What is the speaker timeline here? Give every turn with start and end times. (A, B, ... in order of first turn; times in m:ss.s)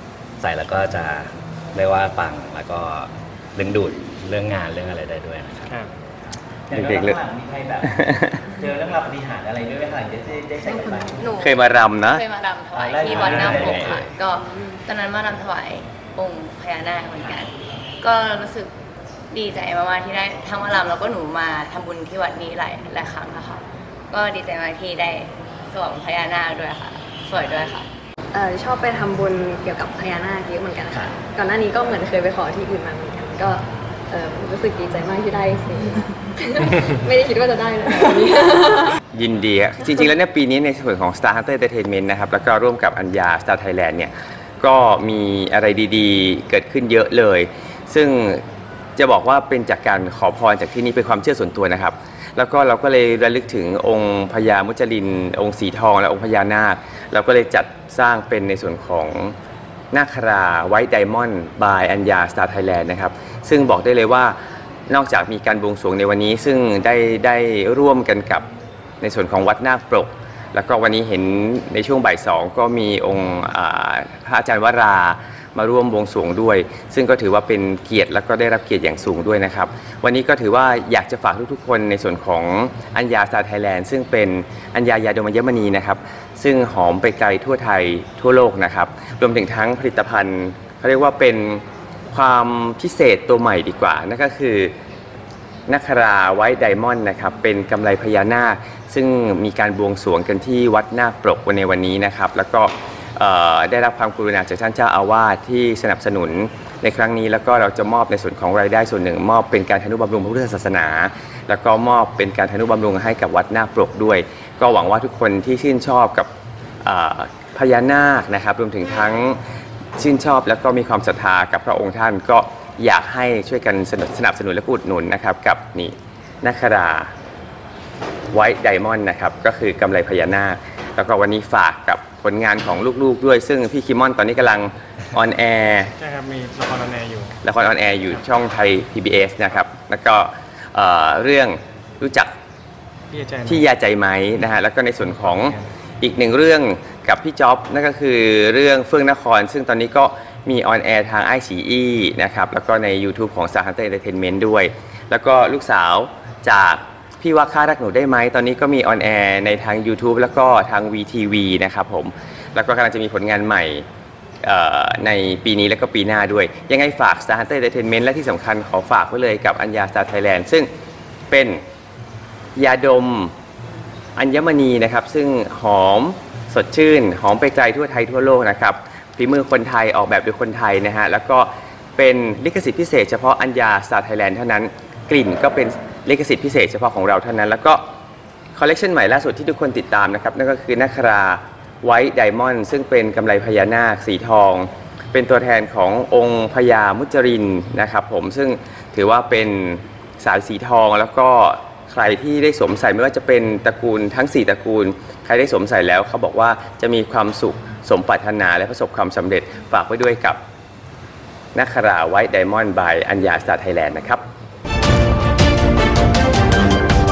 0:00.4-0:05.7 A
0:06.7-0:07.9 B
0:06.7-0:07.2 C
0:07.8-0:08.4 C
0:08.6-0:11.3 B
0:11.2-0:11.6 D
0:11.4-0:12.2 C
0:12.1-0:18.7 D
0:12.8-0:14.1 B
0:19.3-0:27.9 D
0:28.3-0:39.0 E
0:39.1-0:48.4 C
0:49.0-0:59.4 C
0:59.9-1:04.4 C
1:04.9-1:08.5 C
1:09.0-1:34.7 C
1:35.7-1:56.3 C
1:56.8-1:59.4 C
2:00.0-2:07.1 C
2:08.3-2:15.9 C
2:16.0-2:17.4 F
2:17.4-2:22.3 C
2:23.1-2:23.7 F
2:23.5-2:43.9 C
2:44.4-2:50.7 C
2:51.3-2:51.6 C
2:52.6-2:53.3 C
2:54.2-3:07.8 C
3:08.6-3:30.4 C
3:31.5-3:34.2 C